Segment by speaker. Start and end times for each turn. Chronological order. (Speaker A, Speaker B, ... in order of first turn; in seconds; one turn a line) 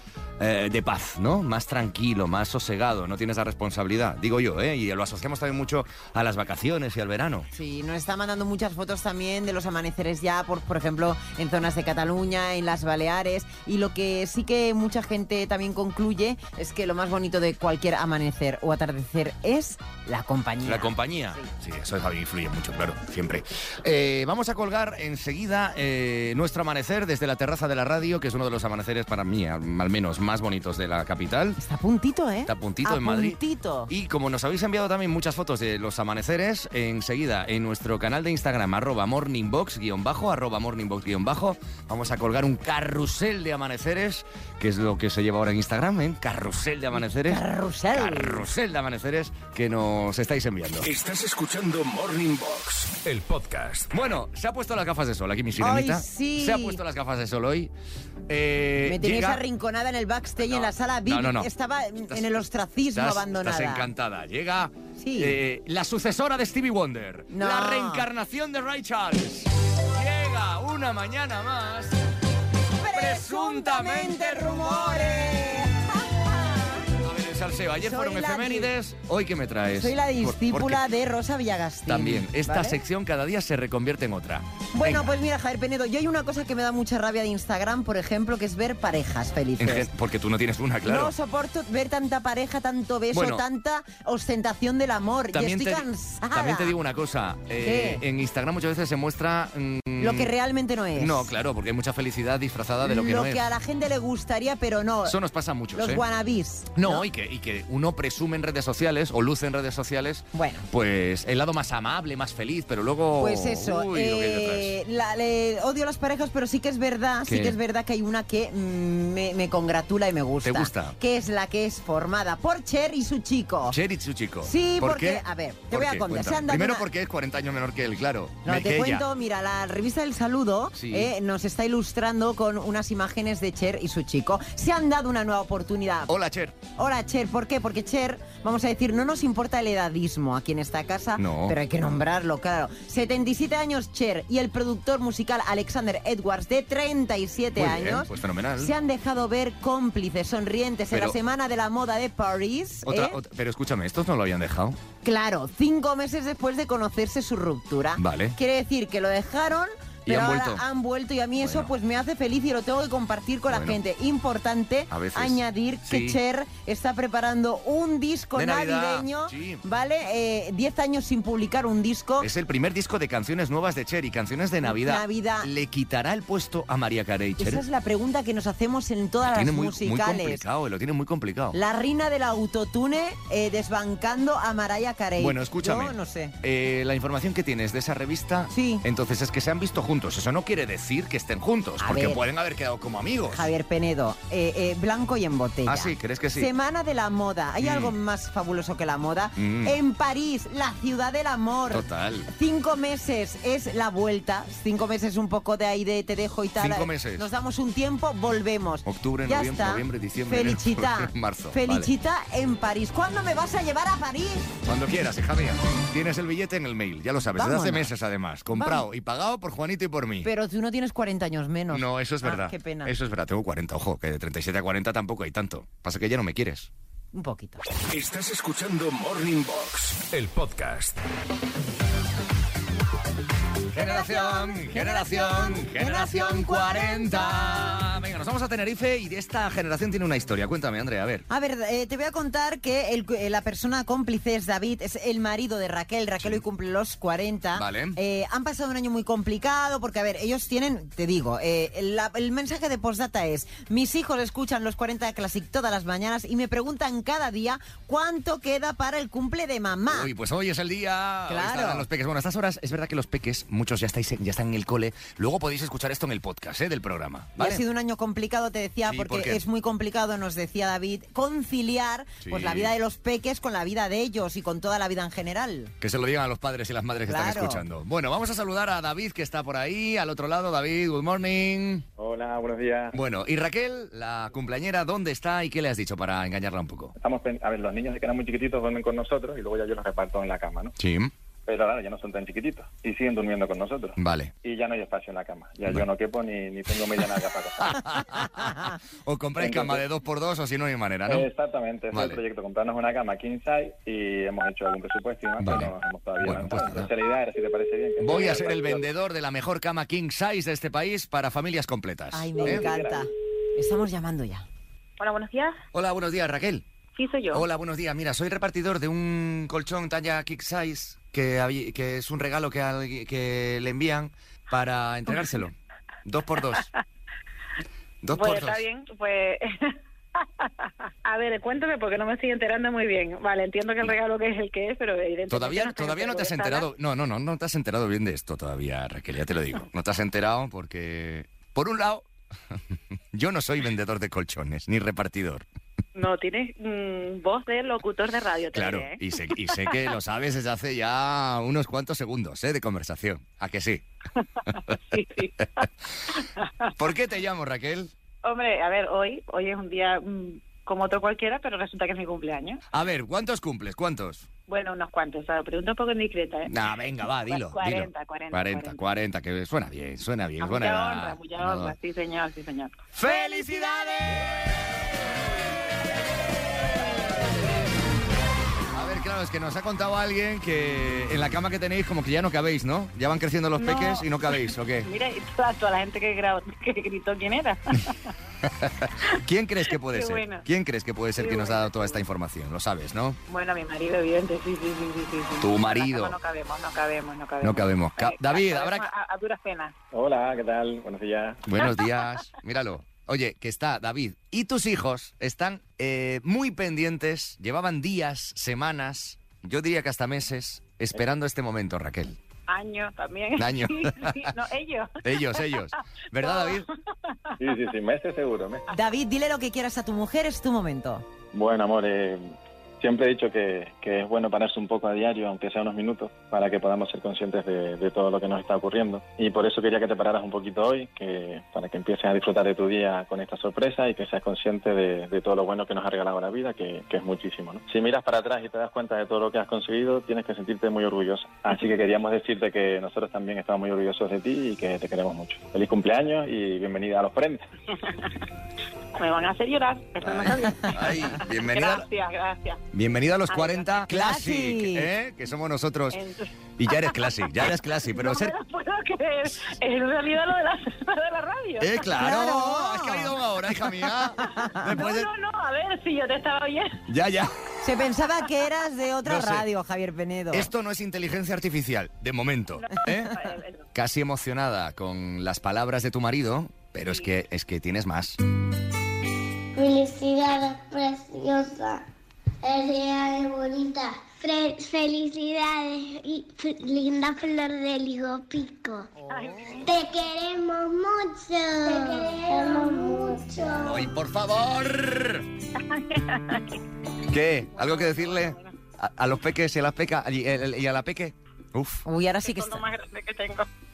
Speaker A: 0.4-7.5
Speaker B: 7.5-21.5
Speaker A: 20.6-31.6
Speaker B: 31.6-33.9
Speaker A: 32.5-47.4
Speaker B: 47.2-48.4
Speaker A: 47.9-51.0
Speaker C: 50.9-53.9
Speaker A: 53.9-57.7
Speaker B: 55.6-56.8
Speaker A: 58.3-59.4
Speaker B: 58.8-63.9
Speaker A: 60.4-61.5
Speaker A: 62.9-72.0
Speaker B: 65.0-65.3
Speaker B: 67.3-68.0
Speaker B: 72.8-76.9
Speaker A: 72.9-75.5
Speaker A: 77.0-80.8
Speaker B: 77.8-78.7
Speaker B: 79.7-82.8
Speaker A: 81.9-85.1
Speaker B: 84.7-89.9
Speaker A: 89.6-91.1
Speaker B: 90.8-96.7
Speaker A: 93.1-93.4
Speaker A: 95.3-100.3
Speaker B: 97.6-98.0
Speaker B: 100.0-101.3
Speaker A: 101.0-103.4
Speaker B: 102.8-105.2
Speaker A: 105.0-106.0
Speaker B: 105.7-107.0
Speaker A: 106.7-114.7
Speaker B: 110.3-110.7
Speaker B: 113.2-123.8
Speaker A: 117.3-117.6
Speaker A: 120.4-121.0
Speaker A: 123.7-129.0
Speaker B: 124.4-126.8
Speaker B: 128.4-136.1
Speaker A: 130.8-131.1
Speaker A: 136.1-136.5
Speaker B: 136.8-153.2
Speaker A: 141.2-141.6
Speaker A: 147.6-148.7
Speaker A: 152.8-154.8
Speaker B: 155.0-172.3
Speaker A: 158.0-158.3
Speaker A: 160.1-160.6
Speaker A: 161.4-161.7
Speaker A: 163.5-163.8
Speaker A: 164.9-166.2
Speaker A: 168.3-169.6
Speaker A: 172.2-177.6
Speaker B: 174.6-175.5
Speaker B: 177.4-180.4
Speaker A: 179.2-181.6
Speaker B: 181.5-186.3
Speaker A: 185.2-193.5
Speaker B: 188.5-188.8
Speaker B: 191.8-192.2
Speaker B: 193.3-214.5
Speaker A: 195.7-196.5
Speaker A: 197.6-197.9
Speaker A: 199.4-199.8
Speaker A: 201.7-202.3
Speaker A: 206.6-207.3
Speaker A: 208.8-211.9
Speaker A: 214.6-220.3
Speaker B: 217.3-217.9
Speaker B: 218.5-218.8
Speaker B: 220.2-222.9
Speaker A: 221.7-226.7
Speaker B: 227.1-227.6
Speaker C: 227.9-230.9
Speaker A: 233.7-241.2
Speaker B: 233.7-237.8
Speaker B: 241.3-260.1
Speaker A: 247.6-248.0
Speaker A: 259.9-267.6
Speaker B: 261.3-261.9
Speaker B: 267.4-275.7
Speaker A: 268.9-269.4
Speaker A: 272.2-272.7
Speaker A: 275.8-281.8
Speaker B: 277.1-277.6
Speaker D: 282.0-283.0
Speaker A: 282.9-286.9
Speaker D: 287.0-290.7
Speaker A: 290.8-291.1
Speaker D: 291.5-297.8
Speaker A: 294.0-294.3
Speaker A: 297.6-301.3
Speaker D: 299.4-299.8
Speaker D: 301.1-308.8
Speaker A: 301.9-302.2
Speaker A: 305.4-306.9
Speaker A: 308.0-312.7
Speaker B: 312.1-314.4
Speaker D: 312.4-313.0
Speaker E: 315.0-315.6
Speaker A: 315.7-316.6
Speaker E: 316.9-317.4
Speaker A: 317.3-326.7
Speaker A: 328.0-328.6
Speaker E: 328.1-329.7
Speaker E: 331.0-336.7
Speaker A: 335.3-342.6
Speaker A: 343.1-345.4
Speaker E: 345.9-349.9
Speaker A: 348.5-353.8
Speaker E: 354.5-355.6
Speaker E: 356.4-356.7
Speaker A: 356.8-357.9
Speaker E: 358.2-362.6
Speaker A: 362.7-364.3
Speaker E: 364.5-366.5
Speaker A: 366.5-371.8
Speaker E: 367.3-368.8
Speaker E: 370.4-374.1
Speaker A: 372.9-374.2
Speaker A: 378.7-384.9
Speaker E: 383.6-387.9
Speaker A: 388.4-393.2
Speaker E: 389.8-390.4
Speaker E: 391.2-392.0
Speaker E: 393.3-399.7
Speaker A: 395.4-396.2
Speaker A: 397.4-398.9
Speaker D: 399.9-401.4
Speaker A: 401.5-412.2
Speaker E: 401.6-401.9
Speaker E: 412.5-415.6
Speaker A: 413.4-414.3
Speaker A: 415.0-416.7
Speaker E: 416.2-416.6
Speaker D: 417.4-418.6
Speaker B: 418.7-421.0
Speaker D: 421.3-447.5
Speaker E: 448.9-452.6
Speaker A: 450.0-451.9
Speaker A: 452.7-456.0
Speaker E: 453.3-453.7
Speaker B: 453.9-454.9
Speaker E: 455.9-457.1
Speaker A: 456.6-458.3
Speaker E: 457.9-461.9
Speaker A: 461.6-465.1
Speaker B: 461.9-463.1
Speaker B: 464.3-464.7
Speaker E: 464.6-466.8
Speaker A: 466.9-467.3
Speaker B: 467.6-470.5
Speaker A: 469.0-469.5
Speaker A: 470.3-473.2
Speaker E: 472.6-473.6
Speaker A: 473.7-478.2
Speaker F: 479.5-481.8
Speaker F: 482.4-488.9
Speaker E: 489.0-489.6
Speaker F: 489.6-493.9
Speaker A: 493.6-495.2
Speaker E: 495.6-496.6
Speaker A: 497.1-501.8
Speaker E: 497.6-498.5
Speaker B: 501.8-502.6
Speaker E: 502.2-503.5